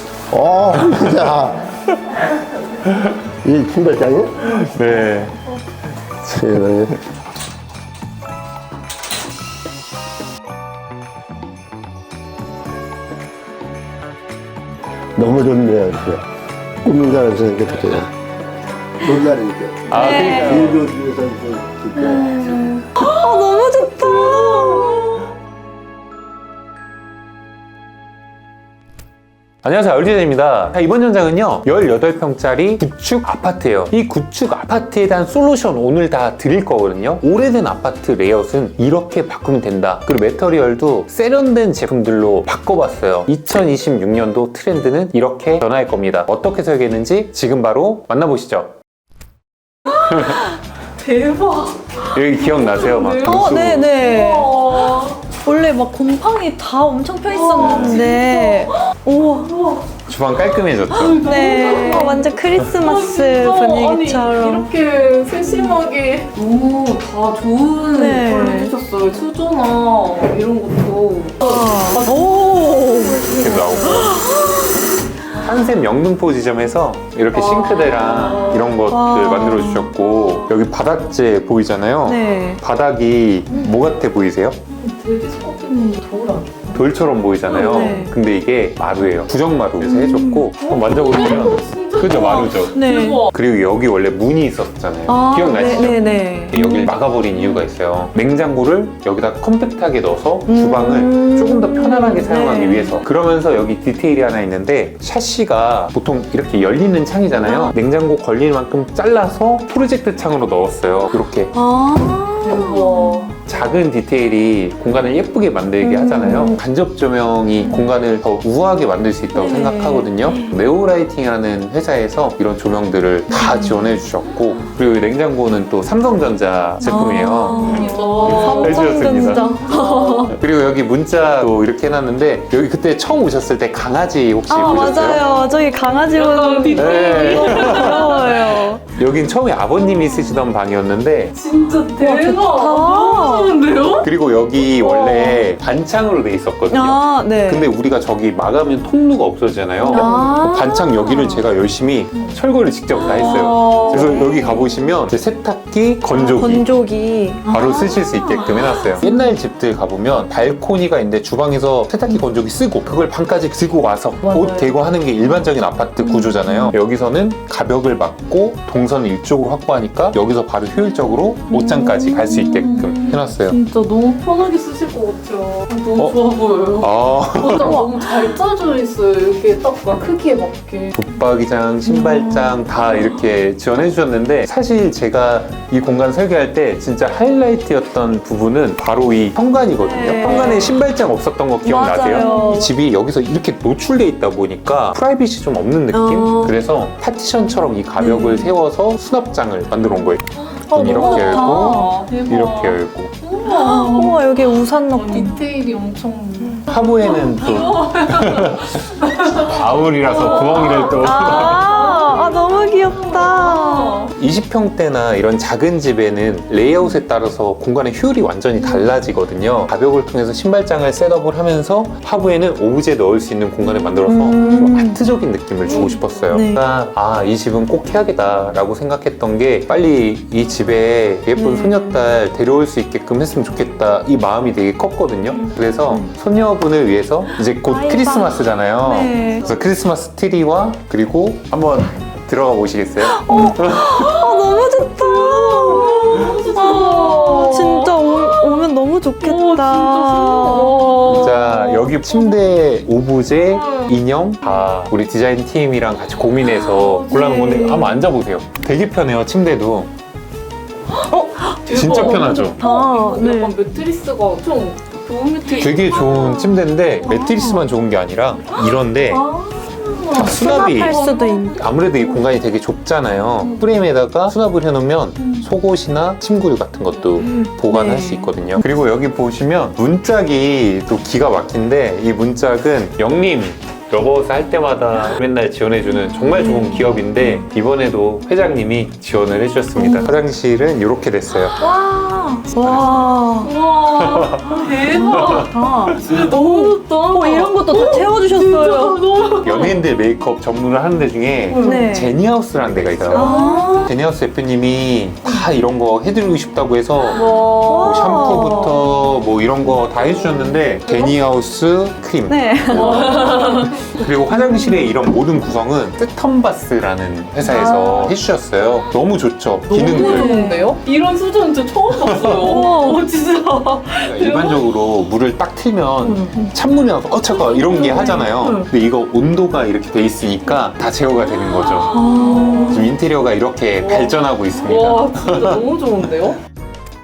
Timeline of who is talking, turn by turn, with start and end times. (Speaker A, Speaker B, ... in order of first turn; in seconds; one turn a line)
Speaker A: 0.3-1.6
Speaker A: 3.3-4.6
Speaker B: 4.4-5.3
Speaker A: 6.2-7.0
Speaker A: 15.2-16.2
Speaker A: 16.8-18.1
Speaker A: 19.0-22.4
Speaker B: 19.9-20.8
Speaker C: 19.9-20.7
Speaker C: 22.0-25.1
Speaker D: 24.1-25.1
Speaker B: 29.6-48.8
Speaker B: 49.9-50.4
Speaker D: 51.0-55.2
Speaker B: 52.1-53.9
Speaker C: 53.2-59.5
Speaker D: 57.3-59.9
Speaker B: 57.6-58.1
Speaker B: 60.1-61.2
Speaker D: 60.9-72.2
Speaker C: 61.1-64.7
Speaker C: 65.5-65.8
Speaker C: 67.9-68.7
Speaker C: 71.4-74.6
Speaker D: 73.0-74.1
Speaker B: 73.3-74.2
Speaker B: 75.4-84.6
Speaker D: 77.3-78.8
Speaker C: 78.9-80.0
Speaker D: 80.2-80.5
Speaker C: 82.0-82.6
Speaker D: 84.7-86.9
Speaker B: 86.8-92.8
Speaker D: 87.4-88.1
Speaker C: 87.5-88.2
Speaker D: 89.8-93.3
Speaker C: 90.0-90.5
Speaker C: 92.7-93.3
Speaker B: 93.3-111.5
Speaker C: 95.1-96.9
Speaker D: 95.5-96.5
Speaker C: 100.5-103.0
Speaker C: 107.4-107.7
Speaker C: 111.5-113.3
Speaker D: 112.4-113.3
Speaker B: 113.5-129.6
Speaker C: 115.8-116.6
Speaker C: 119.3-120.5
Speaker D: 123.3-123.9
Speaker D: 126.8-130.3
Speaker C: 126.8-130.4
Speaker B: 130.3-135.2
Speaker C: 134.5-138.8
Speaker D: 134.6-138.6
Speaker B: 136.8-141.3
Speaker C: 140.0-140.4
Speaker D: 141.3-145.1
Speaker C: 142.0-143.6
Speaker B: 144.0-156.7
Speaker C: 144.8-145.5
Speaker C: 146.7-147.7
Speaker C: 149.8-151.5
Speaker D: 149.9-150.4
Speaker D: 152.1-152.4
Speaker C: 152.9-154.9
Speaker D: 153.0-154.6
Speaker C: 156.1-159.3
Speaker B: 157.5-173.6
Speaker D: 164.2-164.8
Speaker D: 166.0-166.7
Speaker C: 166.4-166.7
Speaker D: 171.5-180.9
Speaker C: 171.7-172.9
Speaker B: 176.8-177.9
Speaker C: 177.5-177.9
Speaker B: 180.9-203.1
Speaker C: 181.9-182.6
Speaker D: 181.9-183.2
Speaker C: 189.8-190.8
Speaker D: 190.2-190.6
Speaker C: 191.6-192.7
Speaker D: 192.1-192.5
Speaker C: 195.9-196.6
Speaker C: 198.0-198.6
Speaker D: 200.4-214.1
Speaker C: 200.9-202.1
Speaker C: 203.5-205.4
Speaker B: 206.7-211.8
Speaker C: 210.8-214.1
Speaker B: 214.2-244.2
Speaker C: 224.1-225.0
Speaker D: 225.7-226.1
Speaker C: 226.3-226.6
Speaker C: 231.3-232.0
Speaker C: 235.8-236.1
Speaker C: 237.6-239.5
Speaker D: 239.0-239.3
Speaker C: 243.1-251.0
Speaker D: 244.0-252.4
Speaker B: 251.1-259.9
Speaker D: 253.4-254.0
Speaker C: 256.4-258.1
Speaker D: 256.8-257.8
Speaker D: 261.0-267.3
Speaker C: 261.1-263.6
Speaker B: 261.7-262.6
Speaker B: 265.6-269.3
Speaker C: 267.1-267.7
Speaker D: 268.5-272.4
Speaker B: 270.1-271.0
Speaker C: 270.1-271.6
Speaker B: 271.5-291.6
Speaker D: 273.4-273.7
Speaker D: 275.2-275.5
Speaker C: 277.3-278.7
Speaker C: 286.0-287.4
Speaker C: 289.8-290.2
Speaker C: 291.5-293.5
Speaker B: 292.6-293.1
Speaker D: 293.4-299.8
Speaker B: 293.9-294.5
Speaker C: 294.9-299.0
Speaker B: 295.1-295.5
Speaker B: 299.4-313.3
Speaker D: 301.5-301.9
Speaker C: 301.6-302.2
Speaker D: 303.0-303.9
Speaker C: 303.1-303.9
Speaker D: 307.1-308.8
Speaker C: 307.7-308.8
Speaker D: 309.9-311.2
Speaker C: 312.3-313.7
Speaker D: 312.7-313.8
Speaker B: 313.8-320.3
Speaker D: 314.3-314.7
Speaker D: 317.4-318.2
Speaker D: 319.7-324.9
Speaker C: 319.9-320.6
Speaker B: 322.0-322.4
Speaker C: 322.4-323.0
Speaker B: 324.0-332.0
Speaker D: 326.0-326.5
Speaker D: 327.3-328.7
Speaker D: 331.2-333.0
Speaker C: 331.9-332.9
Speaker B: 332.6-335.6
Speaker D: 333.8-336.4